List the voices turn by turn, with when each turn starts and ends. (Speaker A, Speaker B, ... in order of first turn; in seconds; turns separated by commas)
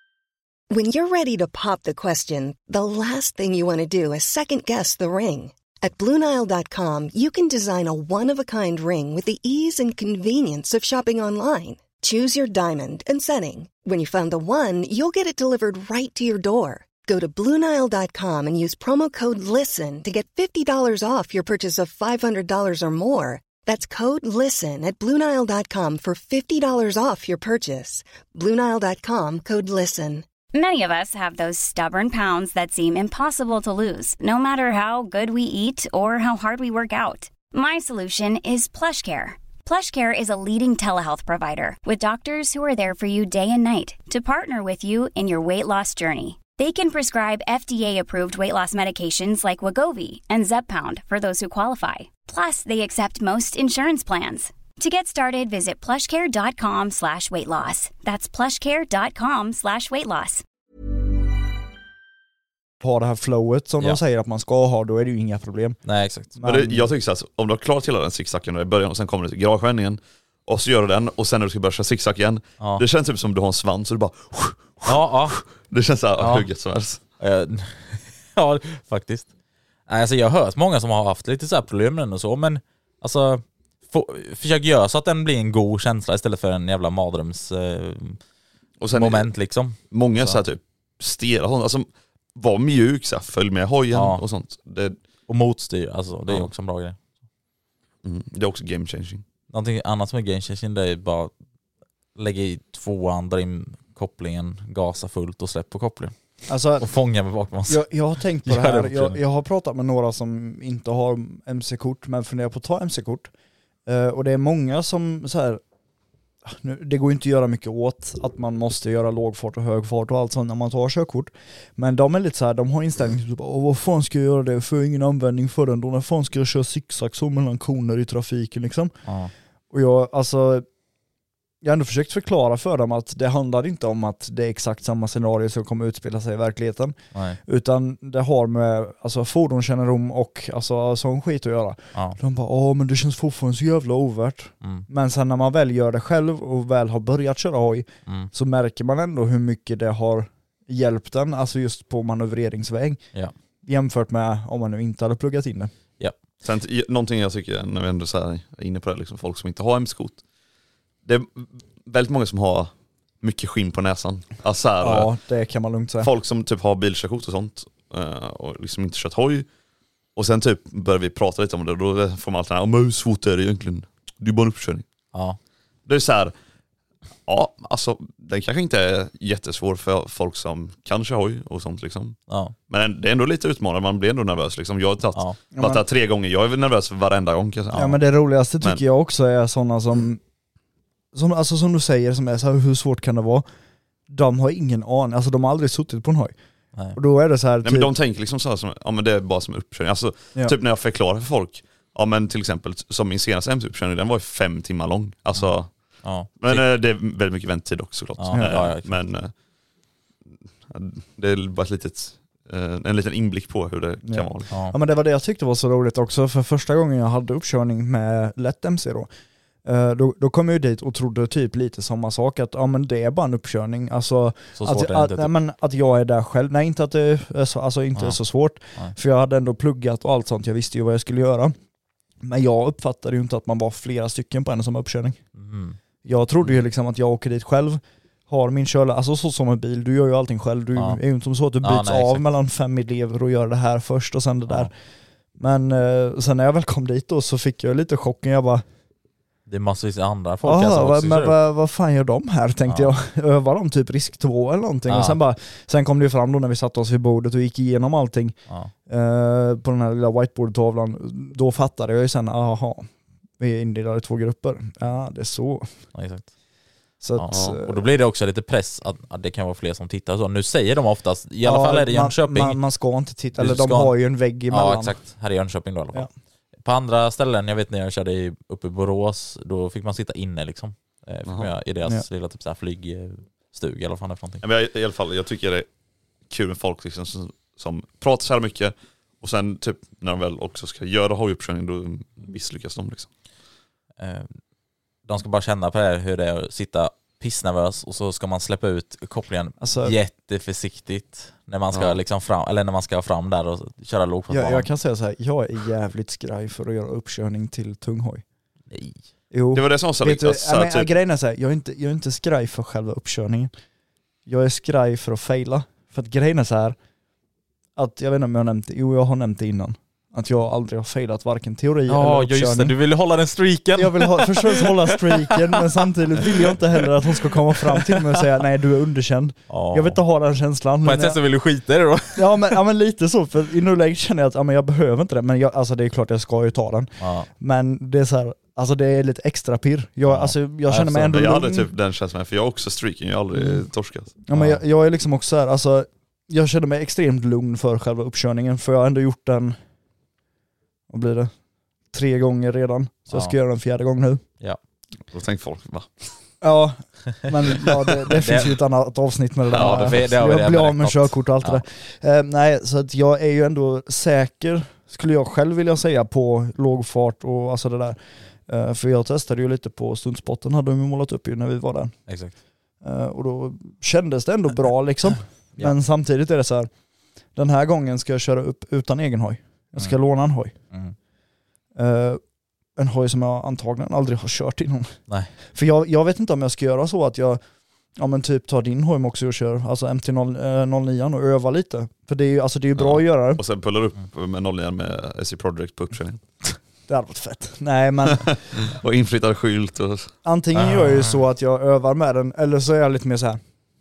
Speaker A: 0.7-30.2, Speaker B: 30.5-60.4, Speaker C: 62.8-65.8, Speaker D: 65.8-66.3, Speaker C: 66.4-66.9, Speaker E: 66.4-77.0, Speaker D: 74.8-75.4, Speaker D: 76.2-76.5, Speaker D: 77.2-79.3, Speaker D: 79.9-88.2, Speaker E: 88.8-89.3, Speaker D: 88.9-90.4, Speaker E: 89.9-95.0, Speaker D: 93.9-94.2, Speaker D: 95.3-97.0, Speaker E: 98.0-99.2, Speaker D: 99.5-101.3, Speaker D: 102.2-106.1, Speaker C: 106.5-106.9, Speaker D: 106.8-107.9, Speaker C: 107.7-113.3, Speaker D: 108.4-109.2, Speaker C: 113.9-115.6, Speaker C: 116.5-128.9, Speaker D: 129.1-129.3, Speaker C: 129.7-130.7, Speaker C: 131.6-153.0, Speaker D: 137.1-137.4, Speaker C: 153.6-155.7, Speaker E: 156.4-160.2, Speaker E: 161.0-165.1, Speaker C: 164.8-166.1, Speaker E: 166.0-169.5, Speaker E: 170.1-174.8, Speaker E: 175.9-176.3, Speaker E: 177.3-182.2, Speaker D: 182.3-182.5, Speaker E: 182.7-188.0, Speaker C: 185.5-185.8, Speaker C: 187.7-190.2, Speaker C: 191.1-193.4, Speaker C: 194.1-196.3, Speaker C: 196.9-197.9, Speaker E: 197.6-205.7, Speaker D: 206.0-206.6, Speaker E: 206.4-209.3, Speaker D: 208.2-208.9, Speaker C: 208.3-208.6, Speaker E: 210.7-214.5, Speaker C: 214.0-219.1, Speaker C: 219.6-231.5, Speaker D: 224.6-225.3, Speaker C: 232.2-235.2, Speaker D: 235.3-235.8, Speaker C: 236.0-244.7, Speaker D: 241.6-242.2, Speaker C: 245.4-248.6, Speaker D: 249.5-251.4, Speaker C: 250.4-258.4, Speaker D: 252.7-252.9, Speaker D: 254.9-255.2, Speaker C: 258.9-262.9, Speaker C: 263.4-265.7, Speaker D: 265.9-266.3, Speaker C: 267.0-267.7, Speaker D: 267.2-272.6, Speaker E: 267.3-267.6, Speaker C: 271.4-275.0, Speaker D: 273.4-273.9, Speaker D: 274.5-276.1, Speaker D: 276.6-284.4, Speaker E: 281.2-281.5, Speaker E: 284.4-285.7, Speaker E: 286.3-293.1, Speaker D: 294.0-294.3, Speaker D: 295.1-304.7, Speaker C: 299.6-299.9, Speaker E: 301.7-302.0, Speaker C: 304.3-308.2, Speaker D: 308.7-308.9, Speaker C: 309.3-313.5, Speaker E: 309.5-310.9, Speaker C: 314.2-316.8, Speaker C: 317.8-322.7, Speaker D: 321.9-325.2, Speaker C: 323.8-331.2, Speaker D: 326.2-326.5, Speaker D: 327.7-328.0, Speaker D: 329.5-330.0, Speaker D: 330.8-332.6, Speaker C: 332.1-341.7, Speaker D: 337.0-337.3, Speaker D: 340.1-341.1, Speaker E: 340.8-344.1, Speaker C: 343.3-343.6, Speaker C: 344.2-349.6, Speaker D: 344.3-344.6, Speaker C: 350.9-351.3, Speaker C: 351.9-354.2, Speaker E: 355.1-356.1, Speaker C: 356.4-368.0, Speaker D: 358.1-358.6, Speaker E: 359.5-360.0, Speaker D: 359.5-361.6, Speaker C: 368.5-371.9, Speaker D: 372.1-372.3, Speaker C: 372.8-376.7, Speaker C: 377.3-380.5, Speaker C: 381.8-382.2, Speaker C: 382.8-384.9, Speaker C: 385.5-387.4, Speaker C: 388.0-393.4, Speaker E: 392.8-396.2, Speaker C: 396.9-398.3, Speaker E: 398.1-400.1, Speaker C: 400.2-403.4, Speaker D: 400.5-401.2